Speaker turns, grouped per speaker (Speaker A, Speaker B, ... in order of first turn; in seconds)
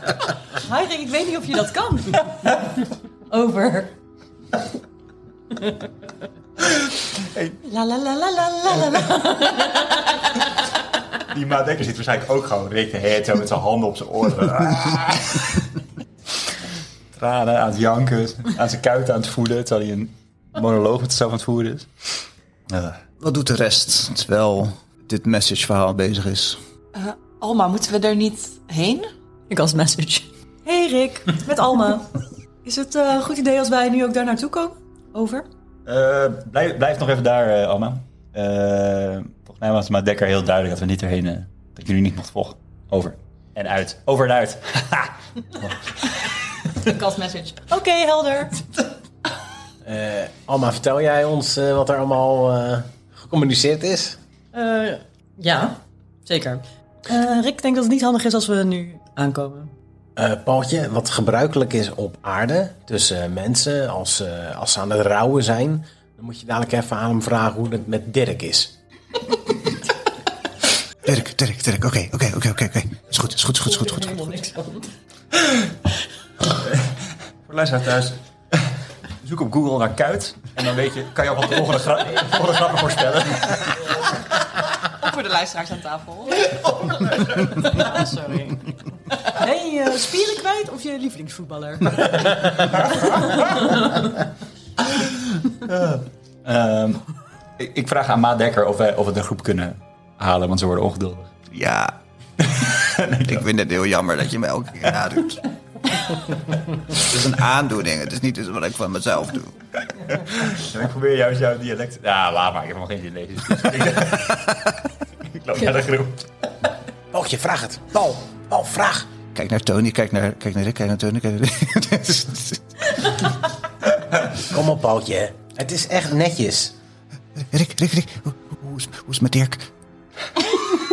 Speaker A: 0.5-2.6, 3.3-4.0, 7.6-10.4, 29.5-35.5, 46.8-48.6, 54.5-59.7, 73.5-74.9, 87.7-88.7, 89.2-94.0
Speaker B: 7.1-7.6, 11.3-15.7, 17.1-23.0, 35.9-46.3, 76.7-76.9, 77.5-78.6, 79.2-84.0, 86.5-87.8, 92.8-93.6, 94.9-97.1, 97.6-101.3, 102.4-103.4, 109.9-116.3
Speaker C: 23.2-26.6, 71.0-74.3, 101.5-102.0, 103.2-105.4, 106.9-109.6, 119.3-123.0, 127.4-129.7
Speaker D: 26.9-29.1, 85.0-86.5
Speaker E: 49.8-54.2, 60.2-68.8, 117.1-119.1, 124.4-126.8